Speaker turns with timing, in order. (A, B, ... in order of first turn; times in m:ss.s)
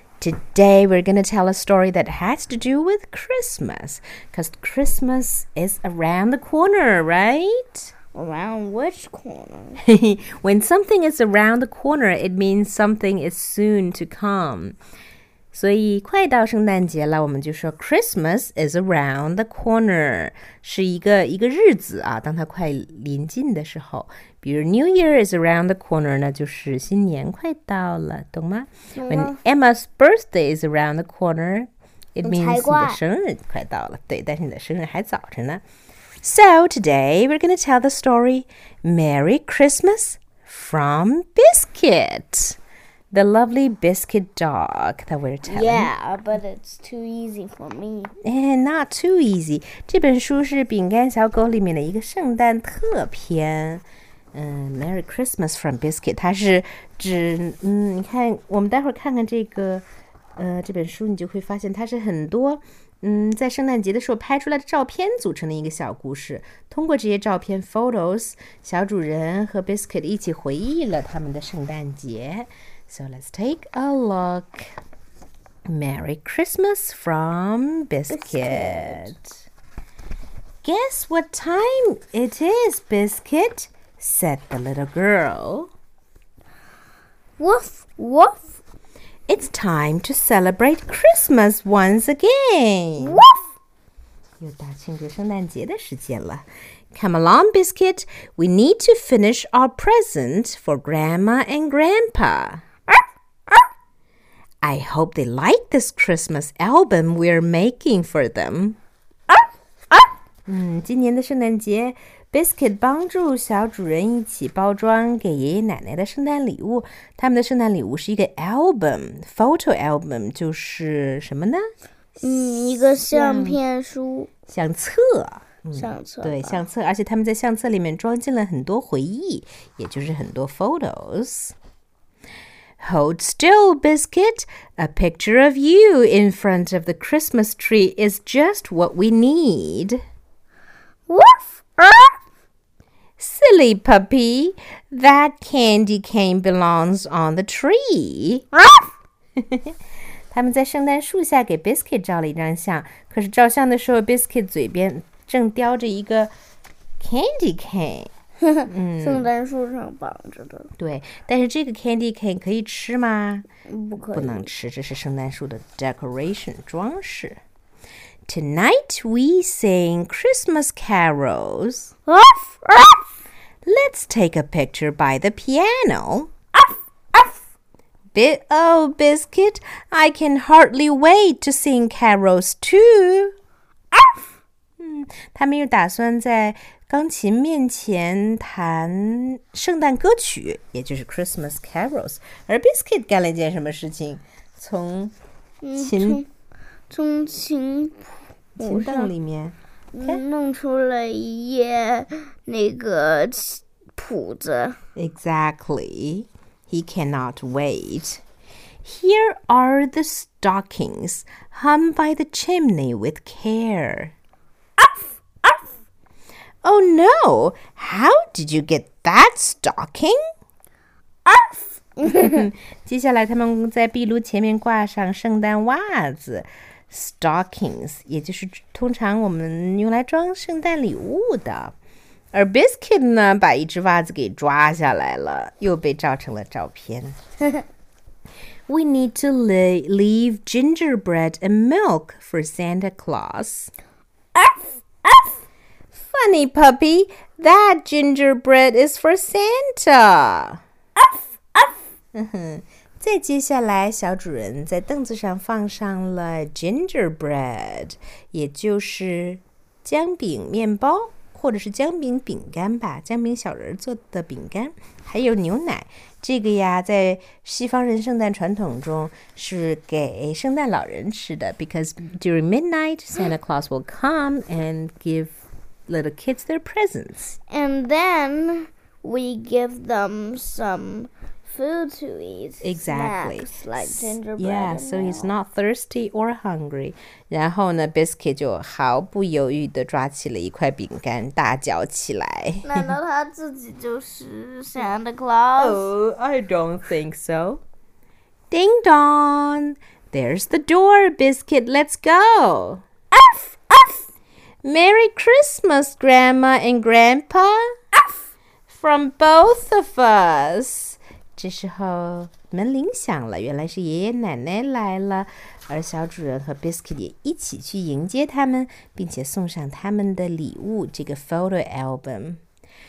0:00.2-0:07.9 A
0:08.1-0:09.8 B
0:09.8-0:14.8 A
0:15.5-0:35.6 A
0:29.0-0:29.4 B
0:32.2-0:33.0 B
0:36.2-0:42.6 A
0:43.1-0:45.9 A
0:45.5-0:48.1 B
0:48.2-0:59.8 A
1:00.4-1:14.6 A
1:15.7-1:19.4 A
1:18.1-1:19.1 B
1:20.6-1:25.7 A
1:27.4-1:28.5 B
1:29.3-1:33.2 A
1:33.0-1:33.4 B
1:34.4-1:42.6 A
1:44.6-1:48.8 A
1:49.3-1:50.1 B
1:50.5-2:01.7 A
2:02.2-2:04.3 B
2:02.6-2:03.6 A
2:04.5-2:11.6 A
2:05.7-2:06.6 B
2:12.8-2:20.0 A
2:21.1-2:22.2 B
2:23.2-2:28.4 A
2:28.5-2:28.9 B
2:29.4-2:29.7 A
2:30.3-2:36.3 A
2:37.0-2:38.1 A
2:38.4-2:40.7 B
2:38.7-2:39.3 A
2:40.8-2:43.5 A
2:43.7-2:44.5 B
2:44.1-2:47.4 A
2:48.3-2:51.9 A
2:52.1-2:53.1 B
2:53.6-2:56.3 A
2:58.1-3:03.4 A
3:04.8-3:15.1 A
3:15.6-3:16.3 B
3:15.8-3:16.2 A
3:16.9-3:18.0 B
3:18.6-3:20.2 A
3:18.6-3:19.1 B
3:19.9-3:24.8 B
3:25.0-3:28.2 A
3:28.8-3:34.1 A
3:34.8-3:35.7 B
3:36.6-3:40.2 A
3:41.3-3:42.5 B
3:42.1-3:51.7 A
3:52.3-3:57.2 A
3:58.7-4:03.7 A
4:04.4-4:05.3 B
4:06.1-4:10.6 A
4:11.0-4:11.8 B
4:12.1-4:37.4 A
4:37.5-4:45.3 B
4:42.6-4:52.9 A
4:52.6-4:55.9 B
4:55.6-4:57.6 A
4:58.5-5:02.8 A
5:03.1-5:04.0 B
5:04.6-5:07.7 A
5:08.7-5:22.4 A